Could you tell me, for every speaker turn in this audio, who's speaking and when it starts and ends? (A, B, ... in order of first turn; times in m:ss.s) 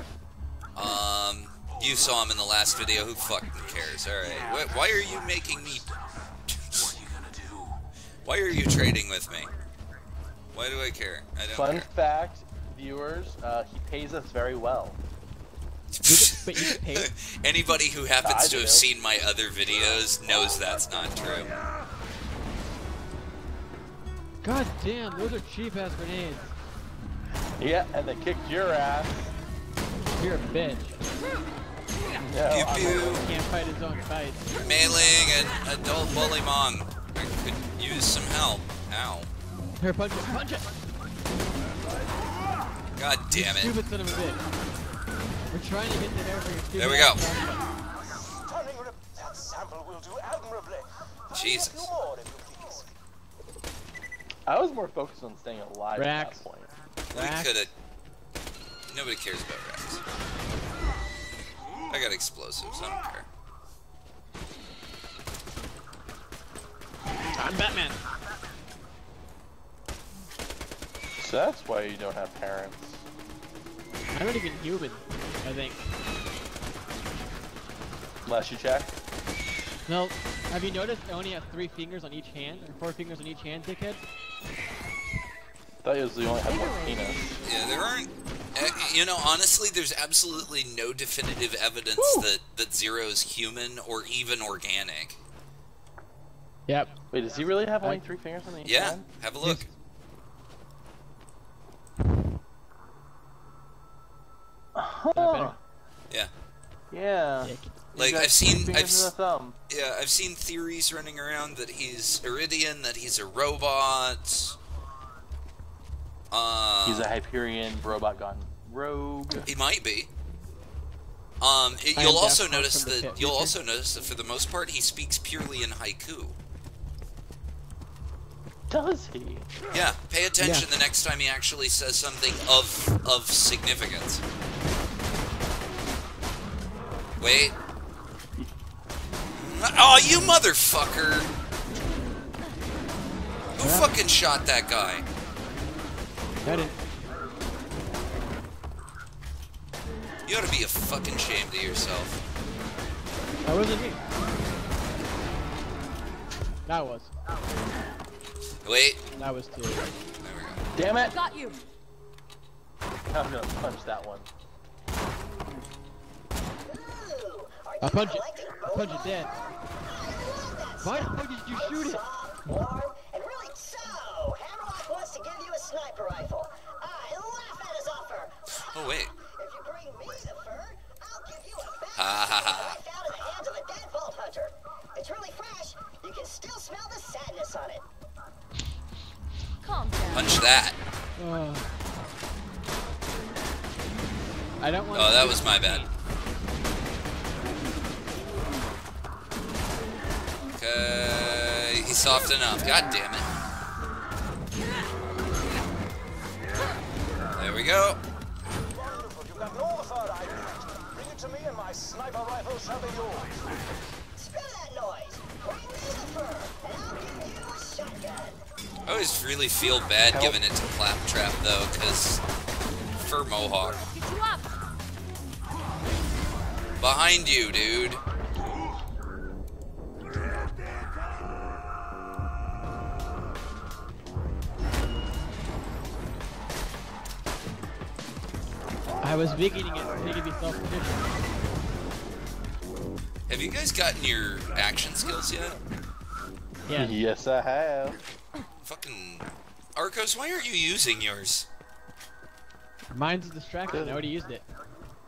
0:00.7-0:07.3 A
0:08.2-0:09.5 A
0:10.5-0:11.9 A
0:11.5-0:15.0 B
0:15.9-0:21.5 A
0:16.1-0:17.1 C
0:18.2-0:18.9 B
0:24.4-0:26.5 C
0:27.6-0:29.3 B
0:30.2-0:31.0 C
0:32.2-0:33.3 B
0:32.4-0:33.3 A
0:33.1-0:34.4 C
0:34.5-0:39.3 A
0:39.8-0:40.7 C
0:43.0-0:43.8 A
0:43.3-0:44.4 C
0:45.5-0:47.6 C
0:46.8-0:47.2 A
0:48.1-0:52.9 D
0:51.3-0:51.9 A
0:54.5-0:56.7 B
0:56.0-0:56.4 C
0:57.1-0:57.7 A
0:57.1-0:57.7 C
0:58.9-1:00.0 A
1:01.9-1:03.3 A
1:07.4-1:08.0 C
1:11.2-1:13.0 B
1:14.1-1:15.8 C
1:18.2-1:18.9 B
1:19.9-1:24.0 C
1:25.8-1:27.4 B
1:26.6-1:27.3 E
1:27.4-1:35.2 A
1:32.0-1:32.3 B
1:36.7-1:37.0 C
1:37.1-1:39.0 B
1:38.6-1:39.6 A
1:39.4-1:39.7 C
1:44.7-1:45.6 B
1:45.1-1:45.6 C
1:46.9-1:49.6 B
1:47.4-1:47.7 C
1:47.9-1:49.1 A
1:49.7-1:54.6 A
1:56.3-1:57.1 A
1:56.8-1:59.4 B
1:59.4-2:00.1 A
2:01.4-2:06.4 A
2:02.0-2:03.5 C
2:08.7-2:09.5 B
2:09.7-2:14.2 A
2:10.4-2:10.7 C
2:17.2-2:17.6 A
2:19.3-2:21.3 A
2:23.6-2:25.0 A
2:23.6-2:23.9 C
2:26.4-2:26.8 C
2:30.2-2:32.2 A
2:33.4-2:34.0 C
2:36.6-2:37.1 C
2:38.6-2:39.0 A
2:39.2-2:39.9 C
2:40.2-2:40.6 A
2:40.7-2:41.2 B
2:41.0-2:41.6 E
2:43.1-2:44.3 B
2:46.6-3:07.9 F
2:47.8-2:49.3 C
2:50.8-2:52.5 C
2:58.6-2:59.1 A
3:01.9-3:02.8 A
3:09.6-3:10.5 E
3:10.1-3:10.8 A
3:11.2-3:11.7 C
3:14.6-3:15.9 C
3:14.9-3:15.9 A
3:20.5-3:23.3 A
3:27.3-3:28.0 A
3:28.7-3:33.4 D
3:34.2-3:38.4 F
3:38.8-3:42.2 A
3:40.1-3:40.4 B
3:43.0-3:43.9 A
3:43.9-3:44.6 E
3:46.8-3:48.0 A
3:59.0-4:01.1 C
4:03.3-4:05.6 A
4:06.6-4:07.0 C
4:06.7-4:08.0 B
4:08.6-4:11.5 A
4:12.9-4:14.4 C
4:13.7-4:14.1 B